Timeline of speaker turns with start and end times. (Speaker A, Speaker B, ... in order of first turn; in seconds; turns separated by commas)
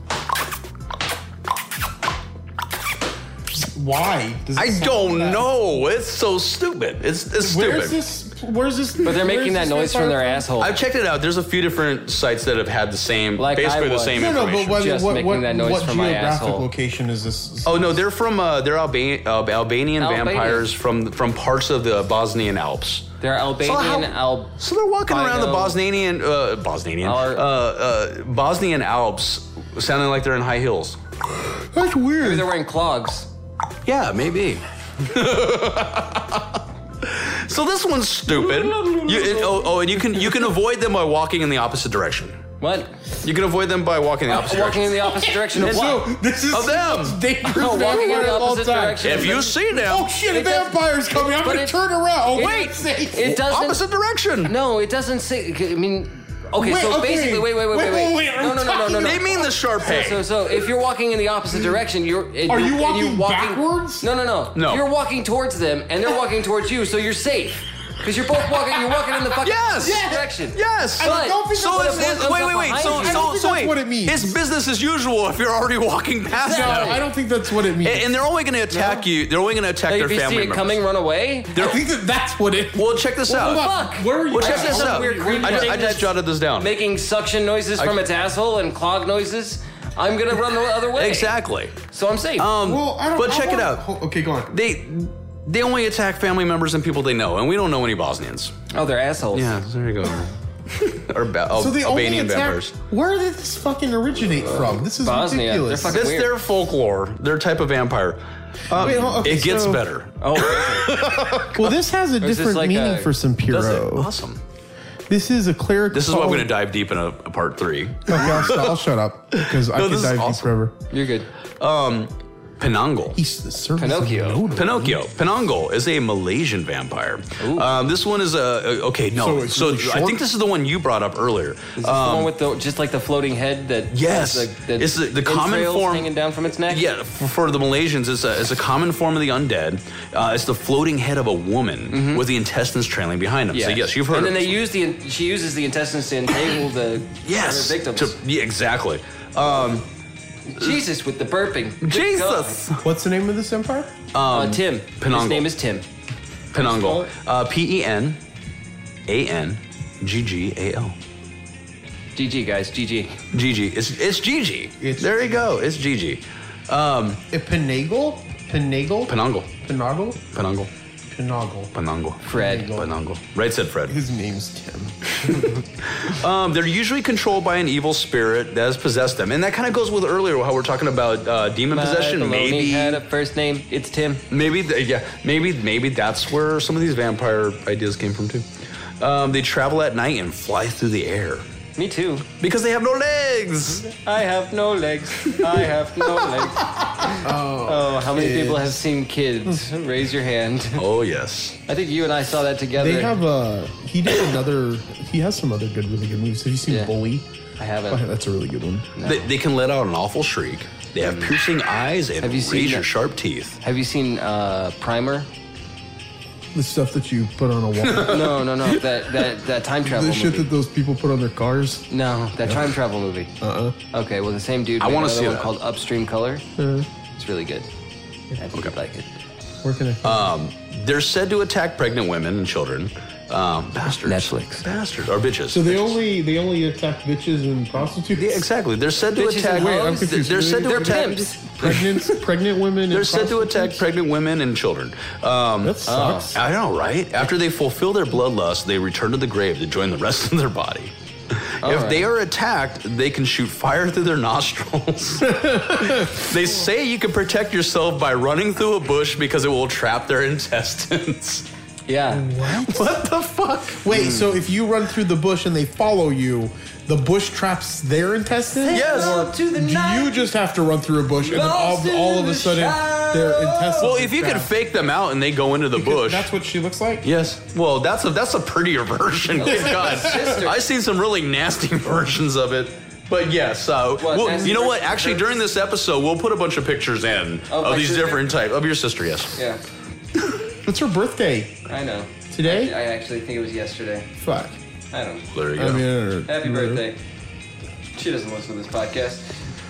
Speaker A: 3.5-5.5, Speaker B: 4.6-8.0, Speaker A: 7.4-10.5, Speaker C: 9.0-10.8, Speaker B: 10.6-14.8, Speaker C: 13.4-16.7, Speaker A: 14.1-18.0, Speaker B: 17.6-23.1, Speaker C: 20.0-20.7, Speaker C: 23.2-24.6, Speaker B: 23.6-31.0, Speaker C: 25.1-25.8, Speaker C: 27.0-27.4, Speaker A: 31.6-32.5, Speaker C: 32.2-33.3, Speaker B: 33.9-42.4, Speaker C: 38.4-39.7, Speaker C: 42.6-42.9, Speaker B: 43.2-47.9, Speaker C: 44.3-46.1, Speaker A: 45.4-53.3, Speaker C: 47.5-49.6, Speaker B: 49.0-50.1, Speaker C: 50.3-51.8, Speaker C: 52.4-53.8, Speaker B: 52.4-54.5, Speaker C: 54.5-73.3, Speaker A: 56.6-59.5, Speaker B: 59.0-60.3, Speaker A: 62.5-64.1, Speaker B: 64.5-64.9, Speaker B: 69.3-77.1, Speaker A: 69.8-70.3, Speaker A: 71.0-72.3, Speaker A: 72.8-74.4, Speaker C: 76.3-77.1, Speaker A: 76.4-78.1, Speaker B: 77.7-80.8, Speaker C: 78.7-79.0, Speaker C: 79.9-81.7, Speaker A: 81.5-85.9, Speaker B: 81.6-81.8, Speaker B: 82.8-83.7, Speaker C: 83.3-92.5, Speaker B: 84.3-86.8, Speaker B: 91.0-91.7, Speaker B: 92.4-93.9, Speaker A: 92.6-94.6, Speaker B: 94.5-98.5, Speaker C: 98.7-99.6, Speaker B: 99.3-102.7, Speaker A: 101.5-106.1, Speaker C: 104.8-106.3, Speaker B: 105.9-111.7, Speaker A: 108.7-109.9, Speaker C: 108.8-109.2, Speaker C: 110.2-111.0, Speaker A: 111.0-114.1, Speaker C: 112.2-113.1, Speaker B: 113.5-114.4, Speaker A: 115.1-116.5, Speaker B: 115.9-118.8, Speaker A: 118.1-120.8, Speaker B: 119.3-120.5, Speaker C: 120.9-121.3, Speaker B: 121.6-123.2, Speaker A: 123.1-125.0, Speaker C: 123.8-124.5, Speaker B: 124.5-132.3, Speaker C: 127.4-127.7, Speaker A: 129.1-130.2, Speaker C: 131.8-136.9, Speaker B: 133.9-136.1, Speaker B: 136.7-144.6, Speaker C: 141.9-142.2, Speaker C: 143.5-148.2, Speaker B: 147.2-149.9, Speaker C: 150.5-152.6, Speaker B: 151.8-152.8, Speaker A: 152.8-153.9, Speaker B: 154.1-155.5, Speaker C: 154.3-155.8, Speaker B: 156.5-158.2, Speaker C: 156.6-157.1, Speaker B: 159.1-160.9, Speaker C: 162.1-163.2, Speaker B: 163.3-167.2, Speaker A: 164.8-165.6, Speaker A: 167.3-170.2, Speaker B: 169.1-169.5, Speaker B: 170.3-170.7, Speaker A: 171.1-171.7, Speaker B: 171.8-174.0, Speaker C: 172.2-172.7, Speaker A: 172.3-172.9, Speaker A: 173.9-175.4, Speaker B: 175.2-183.0, Speaker C: 181.7-184.2, Speaker B: 184.3-188.4, Speaker B: 189.0-191.4, Speaker C: 191.8-192.3, Speaker B: 192.4-193.9, Speaker C: 193.9-200.8, Speaker B: 196.2-196.7, Speaker A: 197.2-198.8, Speaker B: 200.8-201.6, Speaker C: 201.7-203.2, Speaker A: 202.8-207.2, Speaker C: 207.6-208.0, Speaker A: 207.9-208.9, Speaker C: 208.9-209.3, Speaker B: 209.0-213.6, Speaker C: 212.2-212.9, Speaker C: 213.6-215.3, Speaker A: 216.5-218.4, Speaker B: 217.8-218.7, Speaker C: 218.1-220.5, Speaker A: 219.8-221.9, Speaker C: 221.9-223.3, Speaker A: 222.4-222.7, Speaker A: 223.4-223.8, Speaker C: 223.9-226.4, Speaker B: 224.8-225.5, Speaker A: 226.6-226.9, Speaker C: 227.1-227.7, Speaker C: 228.3-229.1, Speaker A: 229.6-230.3, Speaker B: 230.0-236.0, Speaker C: 234.1-234.6, Speaker A: 235.5-238.5, Speaker B: 238.1-241.7, Speaker C: 239.2-242.1, Speaker A: 239.5-243.8, Speaker B: 242.9-245.8, Speaker A: 245.6-246.5, Speaker C: 245.9-246.4, Speaker B: 246.3-261.4, Speaker C: 251.6-252.1, Speaker A: 255.2-256.3, Speaker C: 261.9-262.3, Speaker A: 262.1-262.9, Speaker B: 262.4-264.2, Speaker A: 263.8-274.5, Speaker C: 263.9-264.3, Speaker C: 268.6-270.3, Speaker B: 268.7-269.3, Speaker C: 271.2-273.9, Speaker B: 273.8-276.3, Speaker A: 275.7-277.1, Speaker B: 277.0-289.4, Speaker C: 279.4-280.6, Speaker A: 279.4-280.4, Speaker C: 284.0-285.3, Speaker C: 287.5-288.3, Speaker C: 289.4-289.6, Speaker A: 290.6-291.6, Speaker C: 291.7-294.1, Speaker A: 292.3-292.7, Speaker A: 294.2-294.6, Speaker C: 294.9-295.3, Speaker B: 295.3-295.9, Speaker A: 295.6-296.9, Speaker C: 296.3-297.0, Speaker C: 297.9-299.3